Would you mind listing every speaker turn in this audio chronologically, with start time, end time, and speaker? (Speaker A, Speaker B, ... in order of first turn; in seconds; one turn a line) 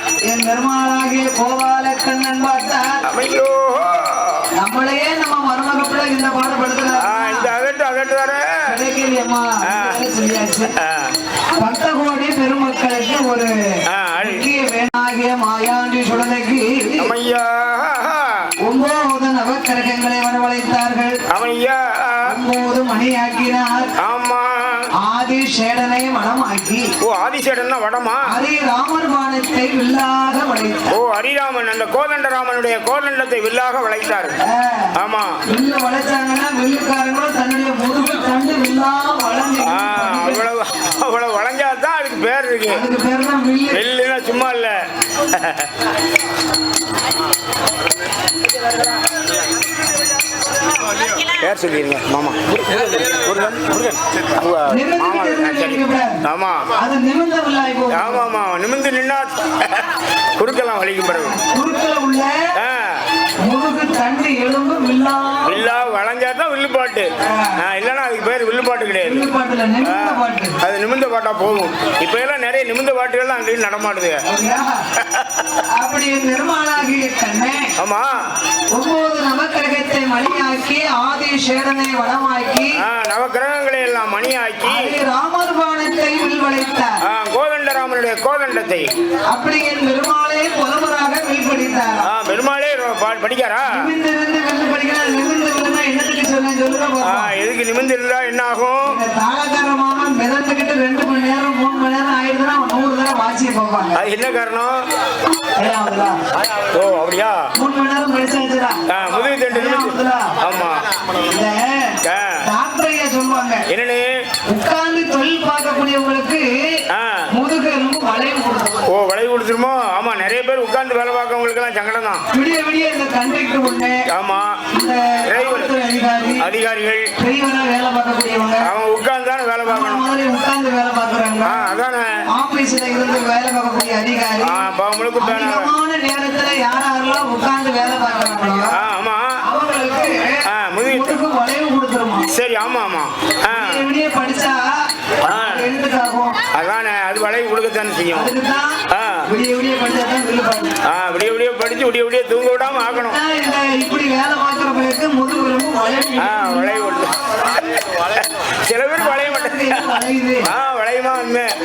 Speaker A: 0.3-3.0
Speaker B: 3.1-4.5
Speaker A: 4.6-7.5
Speaker B: 7.0-8.4
Speaker A: 8.7-10.7
Speaker B: 9.6-10.0
Speaker B: 10.8-11.1
Speaker A: 11.6-13.5
Speaker B: 13.9-14.4
Speaker A: 14.2-17.1
Speaker B: 17.0-18.4
Speaker A: 18.6-21.2
Speaker B: 21.3-22.2
Speaker A: 22.3-23.9
Speaker B: 24.0-24.8
Speaker A: 25.0-26.9
Speaker B: 27.0-28.2
Speaker A: 28.3-30.9
Speaker B: 30.9-34.4
Speaker A: 34.4-34.9
Speaker B: 34.9-35.4
Speaker A: 35.5-40.4
Speaker B: 39.6-42.8
Speaker A: 42.7-43.8
Speaker B: 43.7-45.7
Speaker B: 51.3-56.7
Speaker A: 54.7-56.2
Speaker A: 56.8-58.3
Speaker B: 57.9-61.4
Speaker A: 61.1-62.3
Speaker B: 62.6-63.0
Speaker A: 63.4-65.6
Speaker B: 65.4-69.3
Speaker A: 67.2-67.6
Speaker A: 69.0-70.5
Speaker B: 69.8-74.2
Speaker A: 74.3-74.8
Speaker B: 75.0-75.5
Speaker A: 75.7-77.7
Speaker B: 77.8-78.1
Speaker A: 78.7-82.8
Speaker B: 82.8-84.9
Speaker A: 84.6-87.0
Speaker B: 87.0-88.9
Speaker A: 89.3-92.1
Speaker B: 92.0-93.8
Speaker A: 93.7-97.3
Speaker B: 97.0-99.0
Speaker A: 98.8-104.0
Speaker B: 103.9-104.8
Speaker A: 105.6-106.2
Speaker B: 106.6-107.4
Speaker A: 107.5-108.8
Speaker B: 108.9-110.8
Speaker A: 109.5-110.4
Speaker A: 111.2-113.6
Speaker B: 112.0-112.4
Speaker B: 113.7-114.1
Speaker A: 114.5-116.8
Speaker B: 116.9-117.2
Speaker A: 117.3-118.8
Speaker B: 118.8-122.2
Speaker A: 122.3-124.0
Speaker B: 124.1-124.6
Speaker A: 124.7-126.5
Speaker B: 125.3-125.7
Speaker B: 126.4-127.1
Speaker A: 127.2-128.7
Speaker B: 128.6-130.1
Speaker A: 129.7-131.6
Speaker B: 131.4-132.1
Speaker A: 132.3-134.6
Speaker B: 134.4-135.7
Speaker A: 135.2-138.8
Speaker B: 138.7-139.4
Speaker A: 139.4-142.3
Speaker B: 140.5-141.2
Speaker B: 142.3-143.8
Speaker A: 143.5-146.4
Speaker B: 145.2-145.7
Speaker B: 146.5-148.3
Speaker A: 148.1-150.8
Speaker B: 148.9-149.2
Speaker B: 150.8-153.2
Speaker A: 153.0-156.9
Speaker B: 156.2-159.8
Speaker A: 159.0-160.5
Speaker B: 160.4-161.5